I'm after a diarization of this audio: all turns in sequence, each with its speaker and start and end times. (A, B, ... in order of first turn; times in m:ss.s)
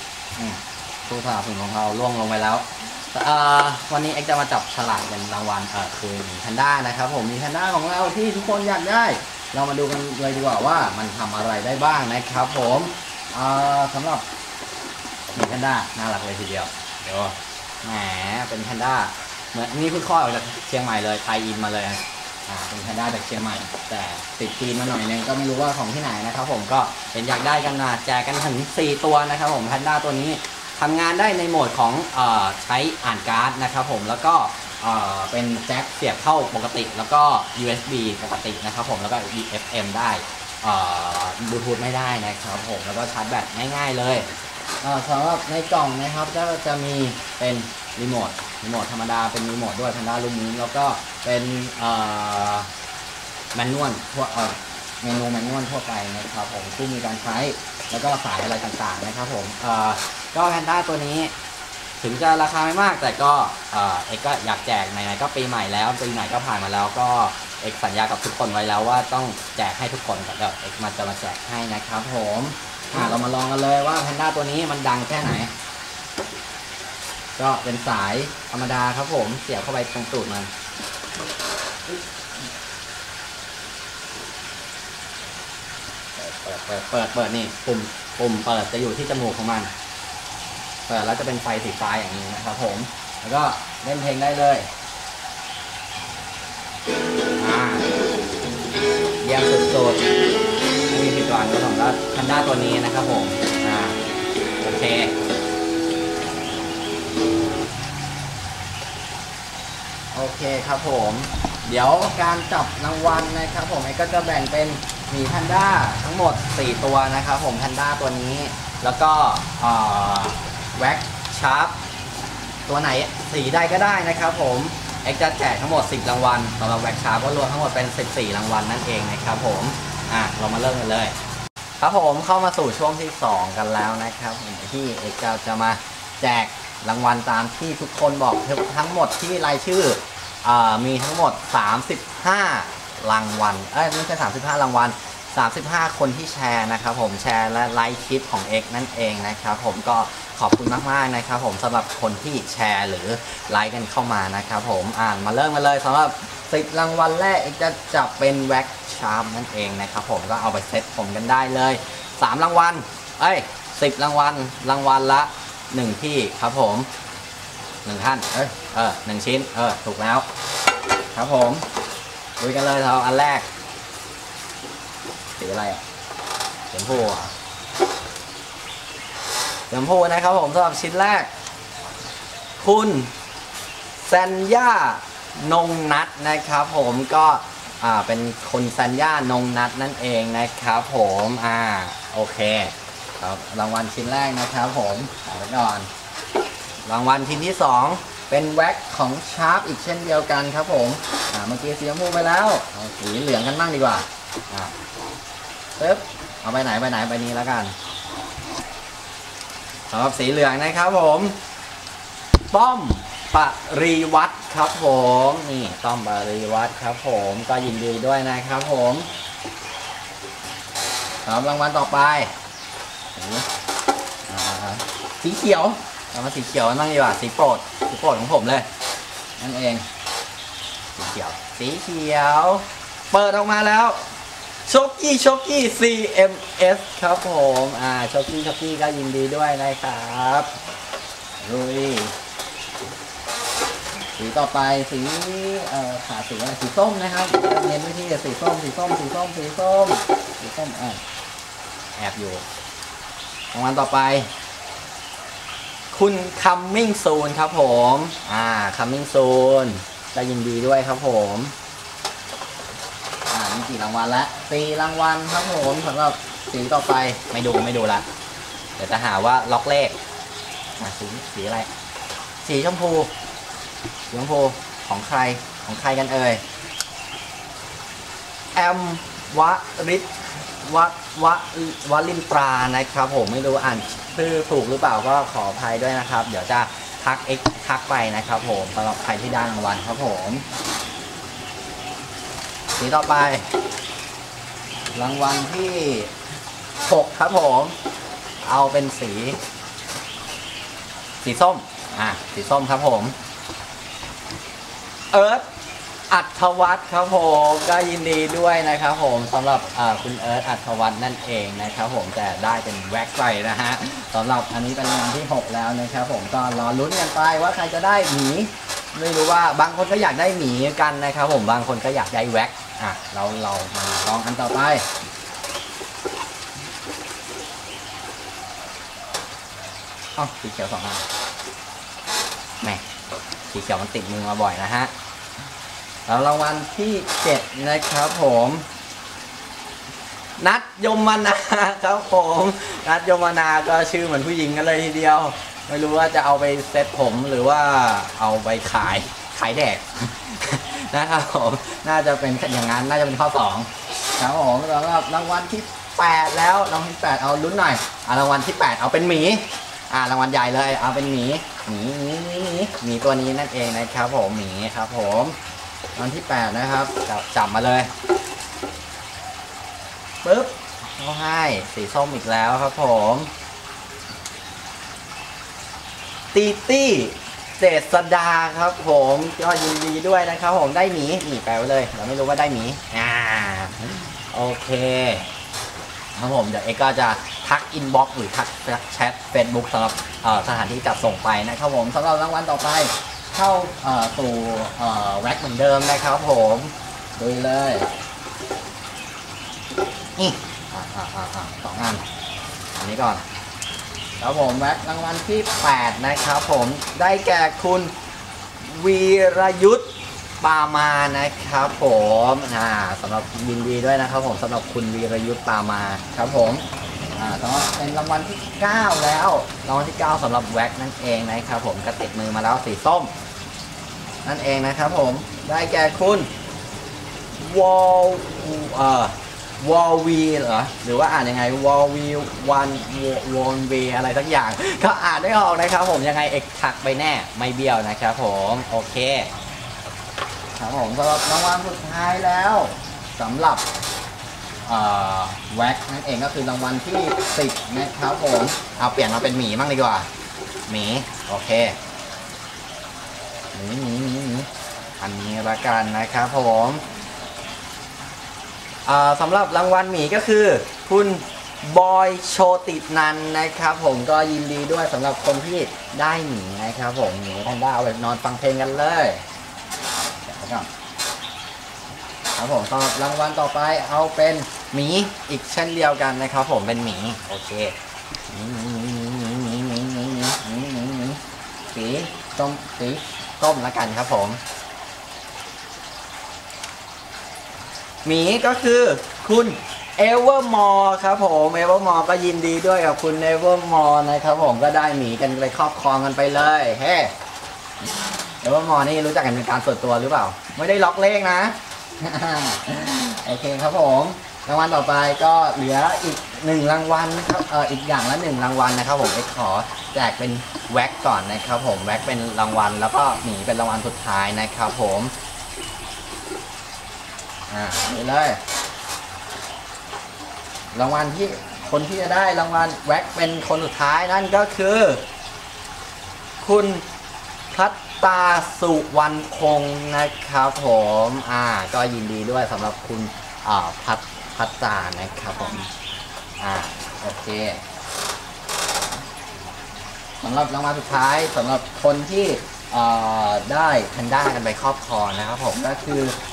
0:00.4-0:14.2 A
0:15.3-0:44.3 A
0:44.8-0:52.7 A
0:53.5-1:01.3 A
1:02.0-1:15.5 A
1:17.4-1:20.5 A
1:26.2-1:29.7 A
1:30.9-1:34.7 A
1:37.4-1:37.8 A
1:39.2-1:40.1 A
1:40.9-1:44.0 A
1:44.6-1:45.1 A
1:50.1-2:01.8 A
2:02.7-2:11.2 A
2:11.8-2:46.9 A
2:47.8-2:50.3 A
2:51.1-2:51.6 A
2:52.4-2:53.5 A
2:55.4-2:55.8 A
2:56.7-2:57.3 A
2:59.7-3:01.3 A
3:02.6-3:03.1 A
3:04.0-3:15.9 A
3:16.8-3:24.7 A
3:25.8-3:27.8 A
3:29.9-3:31.4 A
3:32.5-3:39.1 A
3:41.2-3:42.3 A
3:43.2-3:43.5 A
3:44.3-3:48.7 A
3:49.4-3:49.8 A
3:51.0-3:54.0 A
3:54.7-4:00.5 A
4:01.4-4:02.1 A
4:04.2-4:11.0 A
4:12.0-4:12.4 A
4:13.5-4:14.3 A
4:15.9-4:21.5 A
4:23.3-4:28.1 A
4:28.8-4:30.0 A
4:30.8-4:31.7 A
4:32.4-4:33.1 A
4:34.1-4:36.4 A
4:38.6-4:50.4 A
4:52.8-4:53.5 A
4:54.9-4:56.1 A
4:56.8-4:57.8 A
4:58.4-4:59.4 A
5:01.2-5:03.2 A
5:05.1-5:05.4 A
5:06.1-5:24.9 A
5:30.2-5:31.0 A
5:33.5-5:34.9 A
5:36.1-5:38.7 A
5:40.4-6:05.4 A
6:06.0-6:07.9 A
6:10.2-6:13.3 A
6:16.3-6:25.3 A
6:26.2-6:37.9 A
6:40.2-6:42.0 A
6:42.8-6:43.2 A
6:44.2-6:47.9 A
6:48.6-6:49.9 A
6:50.4-7:03.1 A
7:04.2-7:06.3 A
7:07.4-7:19.3 A
7:20.6-7:23.6 A
7:24.7-7:30.1 A
7:30.7-7:31.8 A
7:33.5-7:34.5 A
7:35.0-7:36.8 A
7:38.9-7:49.2 A
7:50.0-7:50.7 A
7:52.4-7:57.8 A
7:58.3-8:01.2 A
8:01.7-8:04.4 A
8:08.0-8:17.1 A
8:18.4-8:35.1 A
8:37.5-8:38.4 A
8:40.7-8:45.0 A
8:46.4-8:46.8 A
8:47.5-8:55.7 A
8:56.4-8:57.6 A
9:00.2-9:06.2 A